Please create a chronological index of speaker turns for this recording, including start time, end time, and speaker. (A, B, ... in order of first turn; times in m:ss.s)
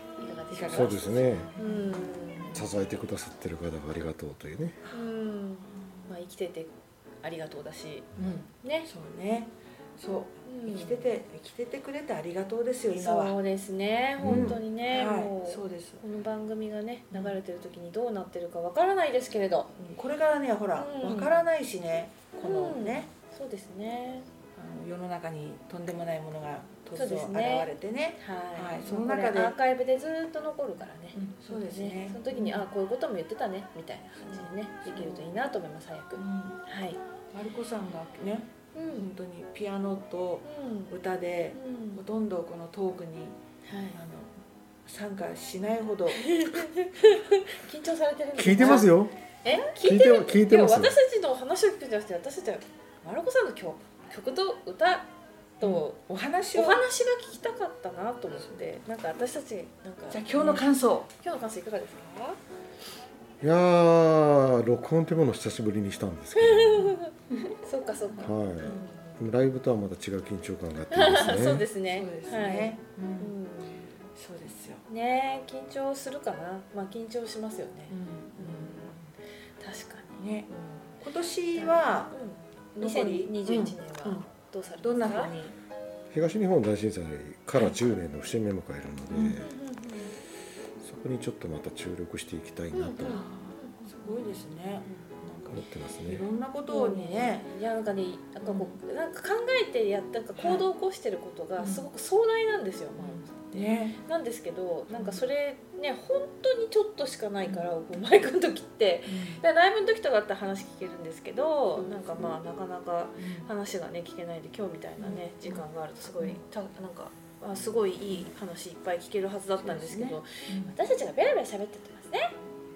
0:00.2-0:02.7 A
0:00.5-0:02.6 B
0:00.7-0:01.5 C
0:02.5-0:04.8 C
0:04.8-0:05.1 B
0:04.9-0:08.9 A
0:05.7-0:06.1 B
0:08.2-0:13.4 B
0:10.4-0:11.1 A
0:12.9-0:19.7 A
0:14.2-0:16.0 B
0:14.2-0:14.6 C
0:17.1-0:17.4 B
0:19.8-0:23.1 B
0:20.8-0:21.4 A
0:22.4-0:24.3 A
0:24.5-0:29.5 B
0:26.9-0:37.0 A
0:31.1-0:32.7 B
0:34.2-0:35.4 B
0:36.2-0:36.6 B
0:37.3-0:43.4 B
0:38.7-0:39.1 A
0:40.4-0:40.9 A
0:41.5-0:42.0 A
0:43.6-0:44.0 A
0:43.9-0:44.3 B
0:44.8-0:46.4 B
0:46.2-0:48.9 A
0:48.4-0:49.1 C
0:48.6-0:48.9 B
0:49.4-0:55.1 A
0:49.8-0:50.9 C
0:55.6-0:56.0 A
0:55.6-0:56.8 B
0:56.5-1:02.4 A
0:58.4-0:58.6 B
1:00.1-1:01.1 B
1:03.4-1:06.9 C
1:06.4-1:09.2 A
1:08.1-1:08.8 B
1:08.2-1:11.6 C
1:10.9-1:13.9 A
1:11.4-1:13.4 B
1:14.1-1:14.8 B
1:14.9-1:19.0 A
1:17.9-1:19.1 B
1:19.6-1:20.9 A
1:20.2-1:20.5 B
1:21.0-1:22.2 B
1:21.5-1:25.4 A
1:22.8-1:24.3 B
1:24.8-1:25.5 B
1:26.1-1:29.5 C
1:29.1-1:29.4 B
1:29.3-1:30.1 A
1:30.8-1:33.2 C
1:32.7-1:33.9 A
1:33.0-1:37.5 B
1:35.5-1:36.2 C
1:36.7-2:02.3 A
1:38.4-1:38.8 B
1:40.4-1:40.6 B
1:41.6-1:41.9 B
1:43.0-1:44.0 B
1:44.9-1:45.2 B
1:49.1-1:49.4 B
1:53.2-1:53.5 B
1:55.0-1:55.6 B
1:59.6-2:00.7 B